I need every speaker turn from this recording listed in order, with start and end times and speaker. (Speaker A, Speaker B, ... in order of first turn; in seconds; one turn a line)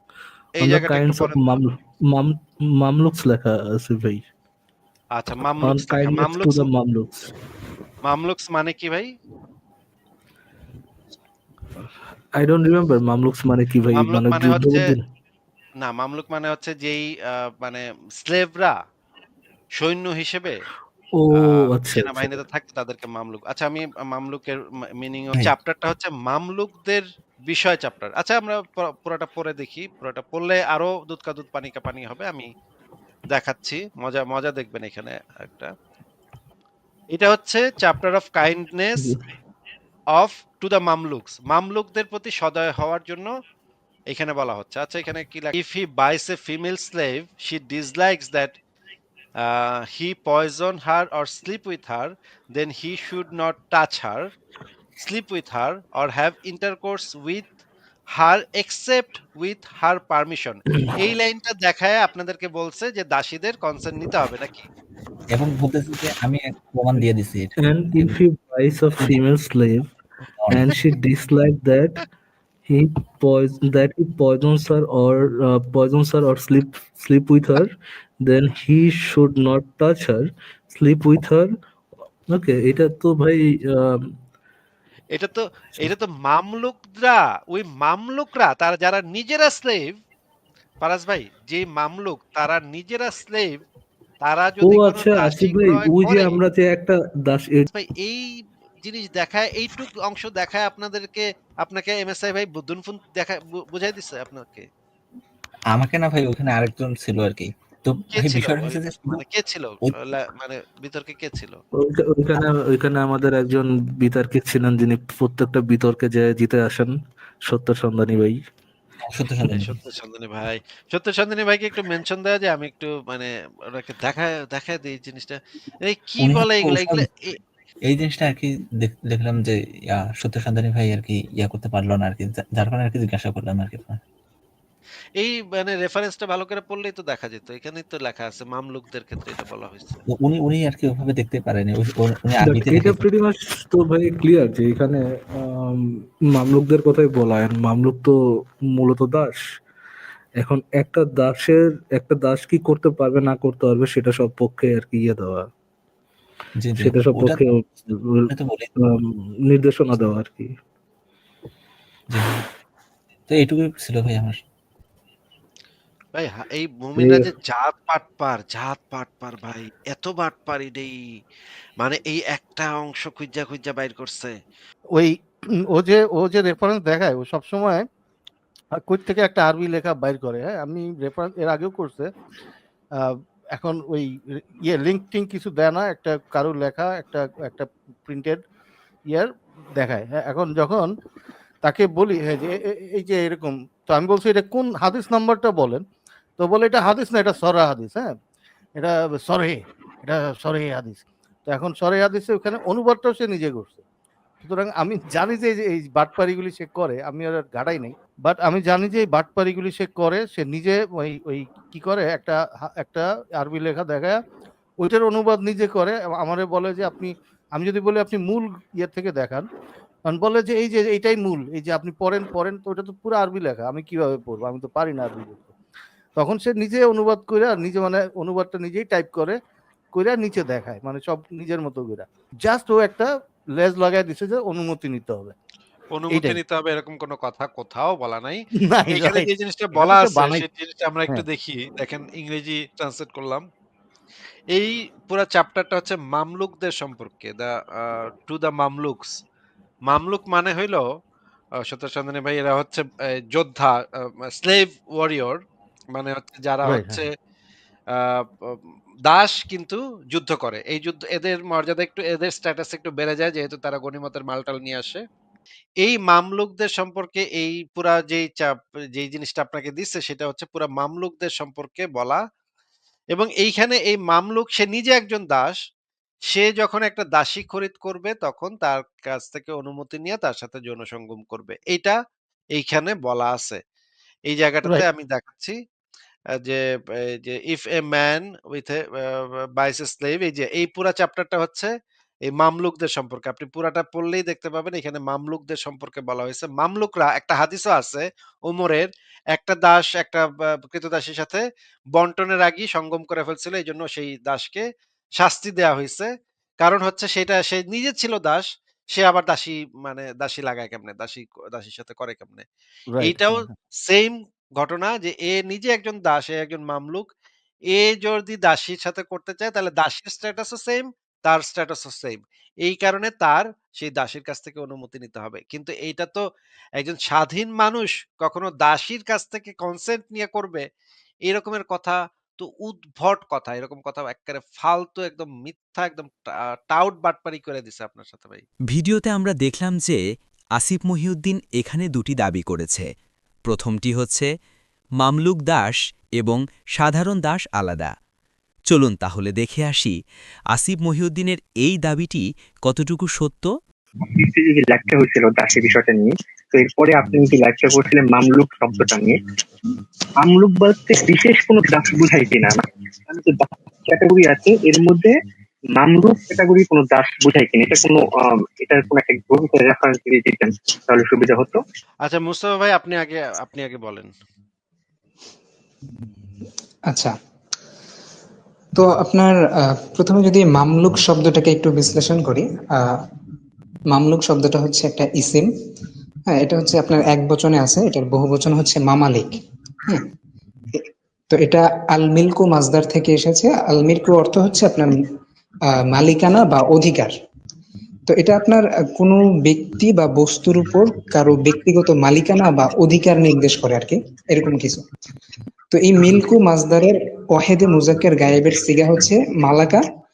Speaker A: 0.6-1.6
Speaker B: 0.6-4.2
Speaker A: 5.2-6.7
Speaker B: 5.6-7.3
Speaker A: 8.0-9.1
Speaker B: 12.4-15.0
Speaker A: 13.9-14.9
Speaker A: 15.8-18.7
Speaker A: 19.8-20.6
Speaker B: 21.2-22.4
Speaker A: 21.4-32.5
Speaker A: 33.3-35.7
Speaker A: 37.1-39.1
Speaker A: 40.1-43.3
Speaker A: 44.1-48.5
Speaker A: 49.4-54.3
Speaker A: 55.0-57.5
Speaker A: 58.1-64.7
Speaker B: 60.7-61.0
Speaker C: 65.3-68.2
Speaker B: 67.6-69.9
Speaker C: 70.4-70.8
Speaker B: 70.5-72.0
Speaker B: 72.7-77.7
Speaker B: 78.2-81.5
Speaker B: 82.3-84.2
Speaker A: 85.1-90.0
Speaker A: 90.8-93.6
Speaker A: 94.2-96.4
Speaker B: 94.6-97.7
Speaker A: 97.7-98.3
Speaker A: 98.8-104.7
Speaker C: 105.7-109.2
Speaker A: 108.1-111.6
Speaker B: 111.8-116.9
Speaker B: 117.5-118.4
Speaker C: 119.1-119.7
Speaker A: 119.5-127.3
Speaker C: 126.2-127.0
Speaker C: 127.9-134.0
Speaker A: 135.2-140.0
Speaker C: 140.1-143.0
Speaker B: 142.4-148.1
Speaker B: 148.8-149.4
Speaker B: 150.4-155.5
Speaker C: 156.6-157.4
Speaker B: 156.8-160.5
Speaker C: 158.3-158.7
Speaker C: 159.9-160.2
Speaker C: 162.1-162.4
Speaker C: 163.3-164.4
Speaker A: 166.1-170.9
Speaker B: 167.0-167.3
Speaker A: 171.8-174.3
Speaker D: 175.7-177.8
Speaker D: 178.7-182.1
Speaker D: 183.0-184.1
Speaker D: 184.6-188.4
Speaker D: 189.1-190.9
Speaker D: 191.6-195.8
Speaker D: 196.4-198.1
Speaker D: 198.8-203.8
Speaker D: 204.4-214.2
Speaker D: 214.8-219.5
Speaker D: 220.1-225.5
Speaker D: 226.2-229.4
Speaker D: 229.9-235.3
Speaker A: 235.9-243.4
Speaker D: 236.1-236.4
Speaker D: 238.8-240.4
Speaker A: 244.5-249.1
Speaker A: 249.9-250.8
Speaker A: 251.6-255.4
Speaker A: 255.9-257.1
Speaker D: 256.6-257.0
Speaker A: 257.9-265.0
Speaker A: 265.8-272.2
Speaker A: 273.1-275.6
Speaker A: 276.3-282.0
Speaker A: 282.5-283.6
Speaker A: 284.3-285.6
Speaker A: 286.4-291.7
Speaker A: 292.3-301.4
Speaker A: 301.9-304.6
Speaker A: 305.2-306.1
Speaker A: 306.6-312.4
Speaker D: 312.9-313.5
Speaker A: 313.0-317.1
Speaker A: 317.7-326.2
Speaker A: 326.8-330.6
Speaker A: 331.2-338.4
Speaker E: 338.7-340.0
Speaker E: 340.6-342.9
Speaker E: 343.4-344.3
Speaker E: 345.0-347.9
Speaker E: 348.7-349.9
Speaker E: 350.5-353.5
Speaker F: 354.1-359.2
Speaker F: 360.2-365.1
Speaker F: 365.8-371.6
Speaker A: 372.0-374.1
Speaker G: 376.9-377.1
Speaker G: 378.7-383.0
Speaker G: 383.9-385.5
Speaker G: 386.3-390.1
Speaker G: 390.7-395.0
Speaker G: 395.7-397.1
Speaker G: 398.1-404.8
Speaker G: 405.7-409.8